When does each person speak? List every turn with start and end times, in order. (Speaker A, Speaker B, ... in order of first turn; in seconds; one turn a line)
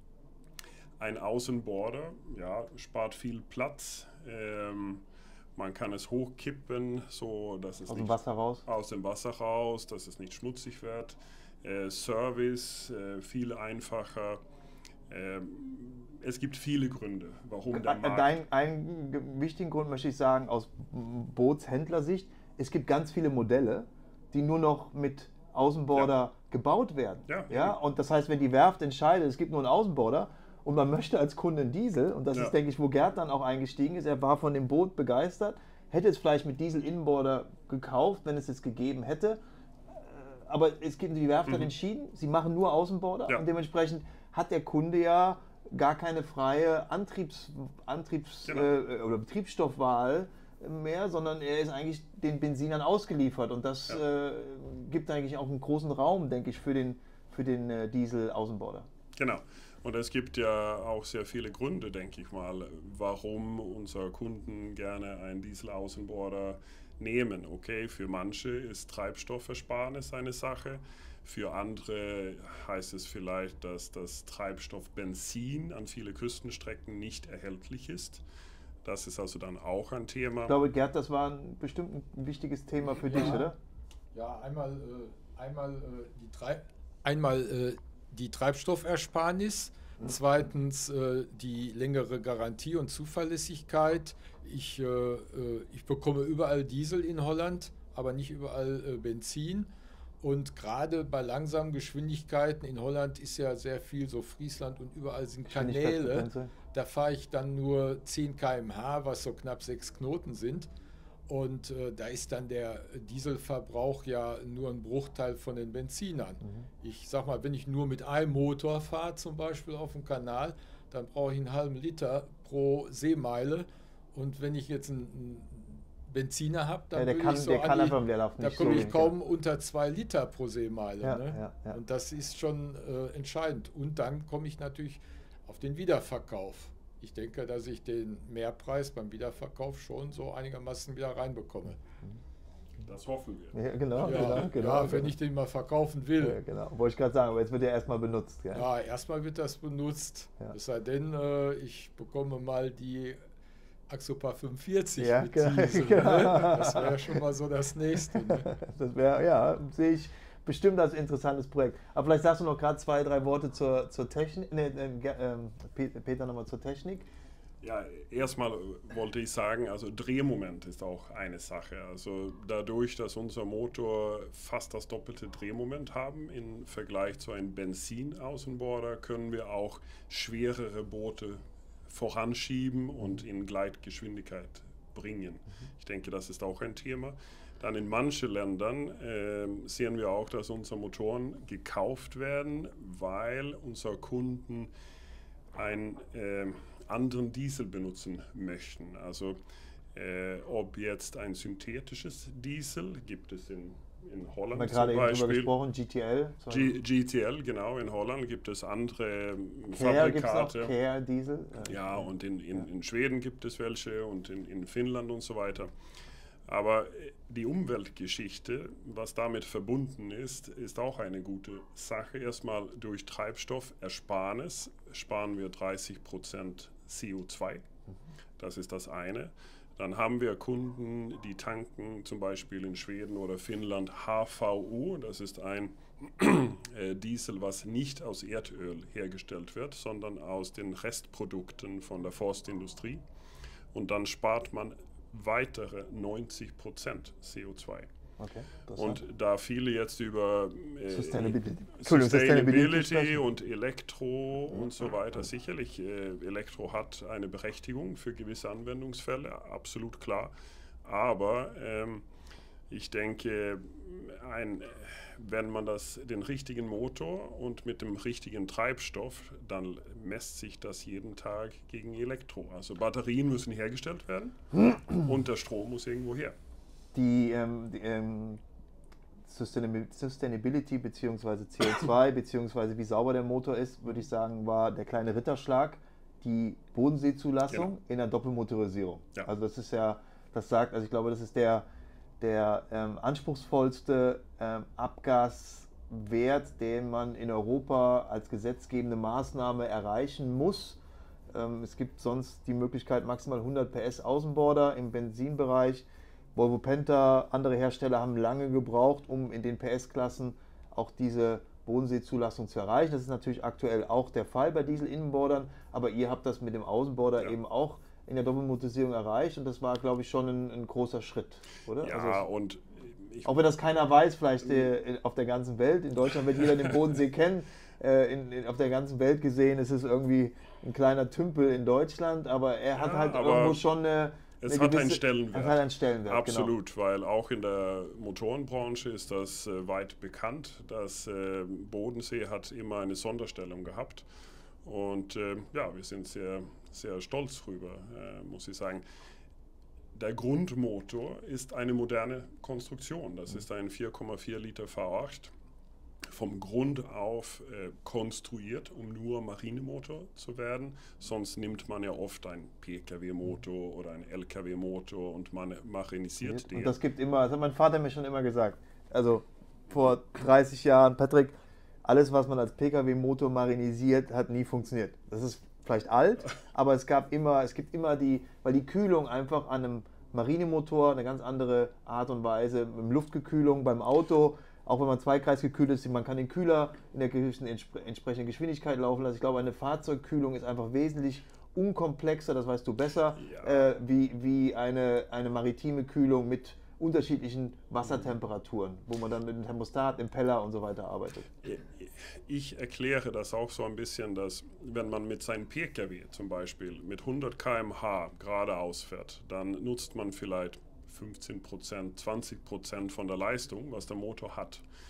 Speaker A: 1.0-5.0
Speaker A: 5.5-14.4
Speaker B: 7.9-8.6
Speaker A: 15.1-18.3
Speaker B: 17.7-58.9
Speaker A: 27.3-27.8
Speaker A: 59.1-78.2
Speaker A: 78.8-80.6
Speaker B: 80.5-83.6
Speaker C: 83.0-83.5
Speaker C: 84.1-99.7
Speaker C: 100.2-110.7
Speaker B: 105.5-106.5
Speaker C: 111.3-141.8
Speaker B: 126.9-129.1
Speaker B: 131.0-131.8
Speaker A: 142.8-144.5
Speaker B: 143.5-145.1
Speaker C: 144.0-146.4
Speaker B: 146.2-148.7
Speaker C: 148.5-153.2
Speaker C: 153.9-158.5
Speaker B: 155.0-157.1
Speaker B: 158.2-167.1
Speaker A: 167.6-194.7
Speaker A: 195.5-199.4
Speaker A: 199.9-205.5
Speaker B: 204.5-206.8
Speaker A: 206.5-210.7
Speaker B: 209.7-212.0
Speaker A: 211.6-215.7
Speaker A: 216.5-227.6
Speaker A: 228.4-243.0
Speaker A: 243.7-247.9
Speaker B: 248.2-249.0
Speaker A: 248.8-260.3
Speaker B: 250.9-253.2
Speaker A: 260.8-262.0
Speaker A: 262.7-276.4
Speaker B: 276.9-278.4
Speaker B: 279.3-291.6
Speaker B: 292.2-300.8
Speaker B: 301.3-322.2
Speaker A: 321.8-323.5
Speaker B: 323.2-336.5
Speaker A: 326.4-326.8
Speaker A: 332.8-333.6
Speaker A: 334.4-344.1
Speaker A: 344.6-348.8
Speaker A: 349.9-355.3
Speaker A: 356.1-366.8
Speaker B: 366.2-401.3
Speaker A: 393.2-393.7
Speaker A: 397.9-398.1
Speaker A: 401.4-414.6